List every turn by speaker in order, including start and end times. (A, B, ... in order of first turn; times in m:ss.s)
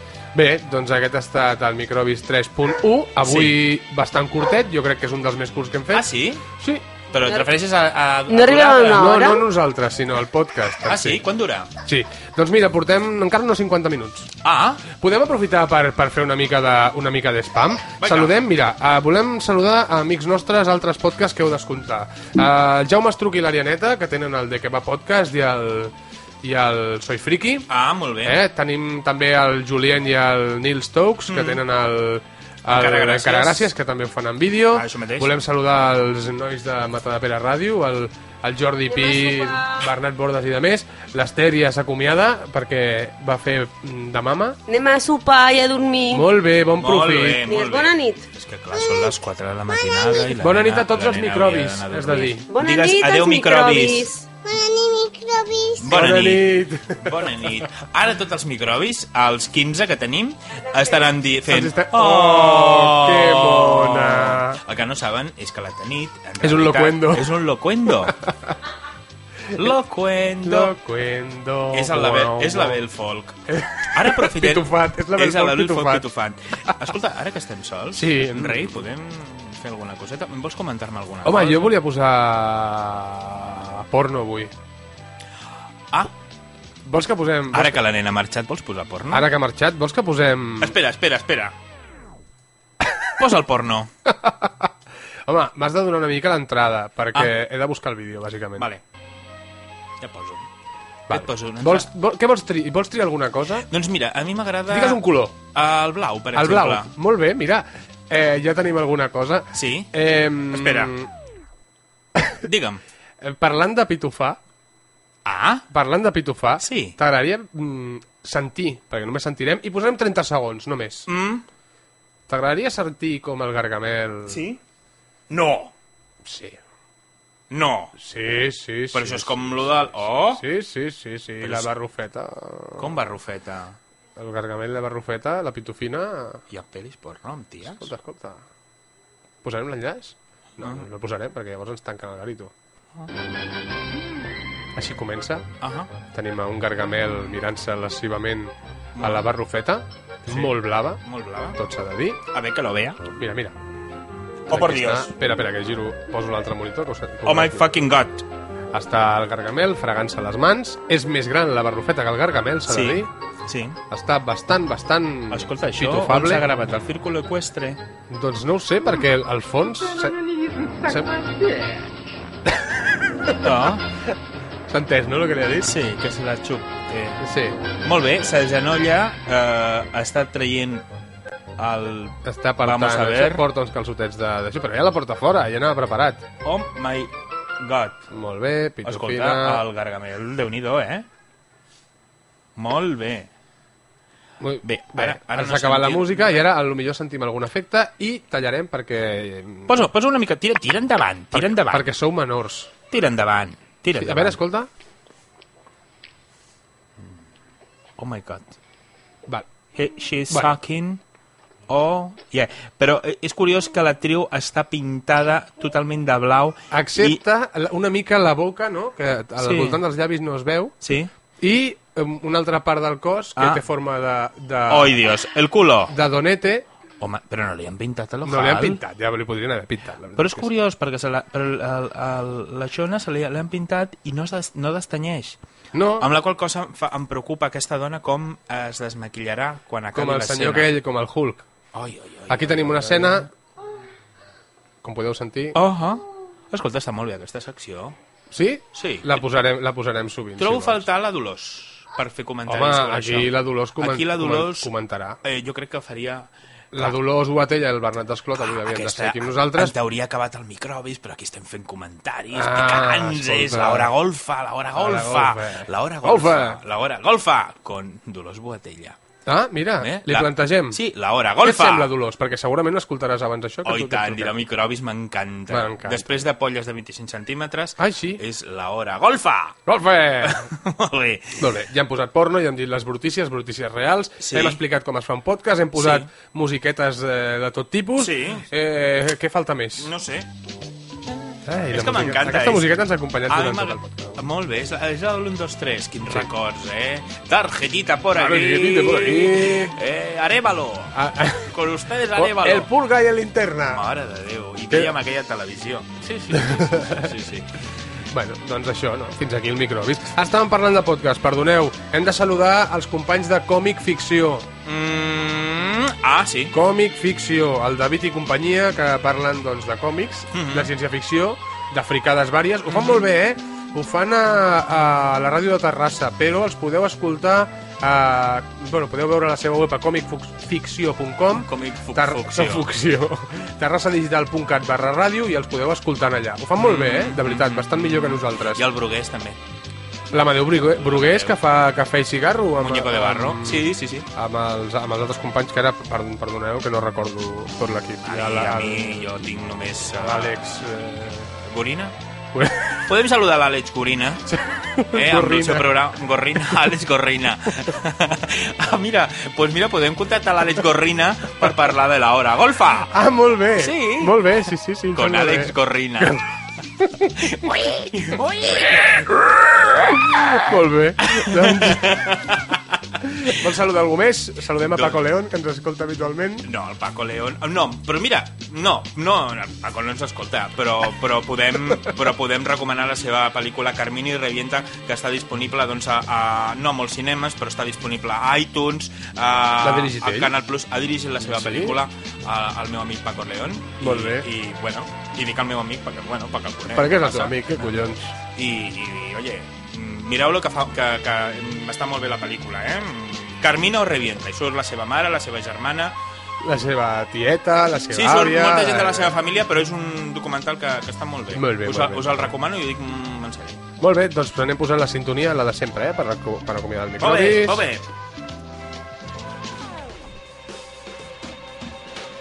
0:00.3-0:06.9 A
0:03.2-0:03.6 B
0:05.9-0:06.4 B
0:07.1-0:09.2 B
0:08.3-0:09.4 C
0:08.9-0:11.2 A
0:10.8-0:11.7 B
0:11.8-0:14.3 A
0:14.4-0:14.9 B
0:14.9-0:27.7 A
0:18.0-0:18.3 B
0:27.7-0:28.4 B
0:28.2-0:44.6 A
0:31.3-0:31.6 B
0:32.7-0:33.7 B
0:34.7-0:35.3 B
0:38.9-0:39.8 C
0:44.7-0:46.3 C
0:46.1-0:47.5 A
0:46.8-0:54.1 B
0:47.4-0:48.2 C
0:48.7-0:50.3 D
0:50.3-0:52.4 A
0:52.4-0:54.2 C
0:54.4-0:56.1 D
0:55.8-1:08.2 B
0:55.9-0:57.1 A
1:01.5-1:04.6 A
1:06.4-1:07.4 A
1:07.9-1:08.6 A
1:09.5-1:09.7 A
1:09.5-1:10.7 B
1:10.4-1:12.8 A
1:11.7-1:13.4 B
1:13.5-1:16.0 A
1:13.9-1:21.8 B
1:17.9-1:18.8 A
1:21.2-1:24.5 A
1:26.8-1:27.8 A
1:27.5-1:29.3 B
1:29.1-1:30.8 A
1:30.6-1:31.5 B
1:33.0-1:33.9 B
1:34.0-1:34.7 A
1:35.2-1:38.7 A
1:38.6-1:38.8 B
1:40.0-1:40.5 B
1:41.1-1:41.9 B
1:41.1-1:43.7 A
1:43.7-1:46.9 B
1:44.7-1:45.4 A
1:46.3-1:51.1 A
1:49.5-1:49.9 B
1:50.5-1:50.9 B
1:52.4-1:52.8 B
1:53.2-1:54.4 A
1:55.2-1:55.6 B
1:55.7-2:01.1 A
1:56.6-1:57.0 B
2:01.1-2:01.4 B
2:02.3-2:04.4 A
2:04.3-2:04.6 B
2:05.3-2:05.7 B
2:06.2-2:06.6 A
2:07.5-2:08.0 B
2:08.0-2:13.0 A
2:08.9-2:10.4 B
2:11.4-2:11.7 B
2:12.8-2:13.8 B
2:14.2-2:16.4 A
2:16.5-2:17.9 B
2:17.6-2:18.4 A
2:19.4-2:22.5 A
2:20.6-2:20.8 B
2:24.7-2:25.5 A
2:25.6-2:25.9 B
2:26.0-2:31.0 A
2:29.0-2:29.3 B
2:30.2-2:31.6 B
2:31.6-2:32.2 A
2:32.3-2:33.0 B
2:33.1-2:33.5 A
2:34.5-2:35.1 B
2:34.5-2:37.7 A
2:37.2-2:38.2 B
2:38.7-2:43.1 A
2:42.7-2:43.8 B
2:43.9-2:46.5 A
2:45.3-2:47.8 B
2:48.1-2:50.2 A
2:50.8-2:51.3 A
2:53.4-2:53.8 B
2:54.7-2:55.7 A
2:55.6-2:57.2 B
2:57.2-2:57.6 A
2:57.8-3:00.9 B
3:01.6-3:03.4 B
3:02.2-3:06.2 A
3:06.4-3:08.0 B
3:08.1-3:09.6 A
3:08.8-3:11.0 B
3:12.6-3:13.3 B
3:14.4-3:19.8 A
3:14.6-3:16.4 B
3:19.7-3:21.9 B
3:21.3-3:22.7 A
3:22.9-3:24.4 B
3:23.9-3:24.7 A
3:28.0-3:28.5 B
3:29.7-3:31.0 B
3:31.7-3:37.2 B
3:36.7-3:40.7 A
3:39.4-3:39.8 B
3:40.8-3:41.1 B
3:41.4-3:45.0 A
3:43.4-3:43.6 B
3:44.7-3:45.9 B
3:45.9-3:46.7 A
3:47.0-3:48.8 B
3:48.2-3:50.5 A
3:50.2-3:55.4 B
3:55.7-3:56.1 A
3:56.0-4:00.7 B
3:59.9-4:01.4 A
4:01.7-4:03.3 B
4:02.3-4:03.3 A
4:04.8-4:05.6 A
4:05.5-4:08.0 B
4:08.3-4:10.8 A
4:08.7-4:09.2 B
4:10.4-4:14.7 B
4:12.5-4:15.2 A
4:15.2-4:16.9 B
4:16.7-4:19.7 A
4:18.4-4:29.0 B
4:22.3-4:23.9 A
4:24.7-4:26.6 A
4:29.2-4:30.8 A
4:29.8-4:31.9 B
4:31.4-4:34.4 A
4:33.6-4:39.6 B
4:35.5-4:36.2 A
4:37.8-4:38.2 A
4:39.6-4:40.5 A
4:40.2-4:41.5 B
4:41.4-4:49.9 A
4:44.2-4:44.6 B
4:45.7-4:46.1 B
4:48.0-4:48.5 B
4:49.8-4:50.3 B
4:51.1-4:52.7 B
4:51.5-4:54.2 A
4:53.3-5:02.7 B
4:58.1-4:59.7 A
5:00.9-5:01.6 A
5:02.1-5:03.9 A
5:03.7-5:07.5 B
5:06.3-5:07.1 A
5:08.1-5:14.5 A
5:14.6-5:16.5 B
5:16.5-5:38.6 A
5:20.3-5:20.7 B
5:22.7-5:23.0 B
5:31.3-5:32.7 B
5:36.6-5:39.4 B
5:40.1-5:49.2 A
5:40.7-5:41.3 B
5:42.6-5:44.1 B
5:48.0-5:50.4 B
5:49.9-5:51.3 A
5:51.3-5:51.9 B
5:52.3-5:52.8 A
5:52.8-5:54.3 B
5:54.3-5:55.7 A
5:54.9-6:02.9 B
6:02.9-6:06.2 A
6:03.6-6:04.4 B
6:04.9-6:06.2 B
6:06.8-6:07.1 A
6:07.2-6:10.4 B
6:10.4-6:12.0 A
6:11.0-6:13.4 B
6:13.0-6:16.5 A
6:14.7-6:15.0 B
6:16.4-6:46.0 B
6:29.6-6:30.3 A
6:31.2-6:31.8 A
6:33.8-6:34.3 A
6:36.7-6:38.1 A
6:46.4-6:49.2 A
6:47.9-6:53.6 B
6:51.3-6:52.3 A
6:53.8-6:57.6 A
6:57.0-6:57.8 B